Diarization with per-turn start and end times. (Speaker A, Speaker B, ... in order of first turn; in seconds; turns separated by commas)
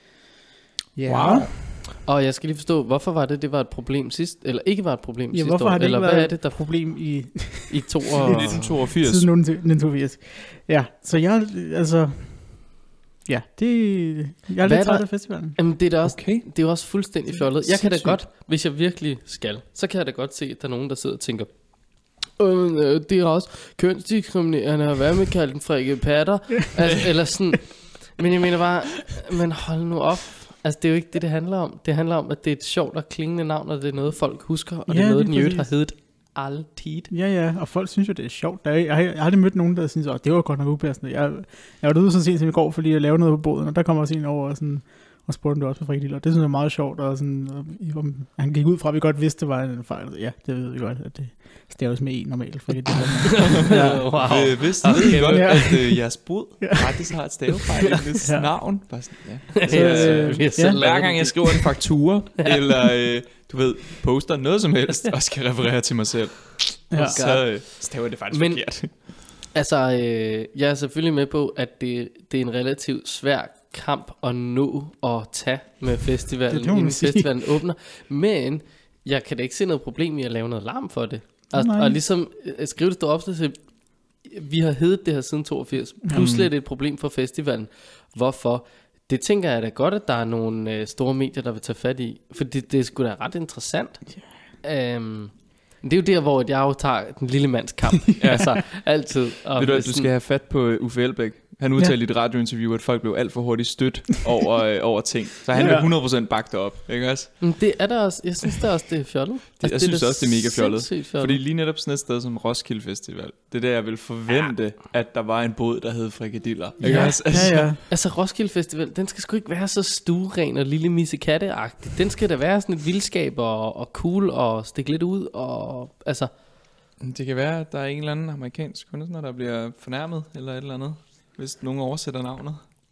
Speaker A: 0.9-1.6, Speaker B: 1.1-1.5, Speaker C: 1.9-6.6, Speaker A: 5.3-15.6, Speaker C: 7.7-8.7, Speaker B: 8.2-9.3, Speaker C: 14.6-21.5, Speaker B: 16.1-16.5, Speaker B: 17.7-18.1, Speaker C: 22.3-37.1, Speaker A: 34.9-35.7, Speaker A: 37.1-56.0, Speaker C: 53.3-55.6, Speaker B: 53.4-68.9, Speaker A: 56.6-57.2, Speaker A: 58.2-58.5, Speaker C: 59.5-61.8, Speaker A: 59.7-60.8, Speaker C: 62.4-62.6, Speaker A: 66.9-67.2, Speaker C: 67.0-67.7, Speaker C: 68.3-68.6, Speaker C: 69.5-83.6, Speaker A: 76.5-77.5, Speaker A: 81.5-82.0, Speaker C: 84.2-94.0, Speaker B: 86.1-86.5, Speaker C: 94.6-100.1, Speaker B: 98.2-98.7, Speaker B: 99.6-107.5, Speaker A: 105.5-105.9, Speaker C: 107.4-111.4, Speaker B: 109.6-117.7, Speaker C: 116.8-126.3, Speaker A: 116.8-117.8, Speaker B: 127.0-132.6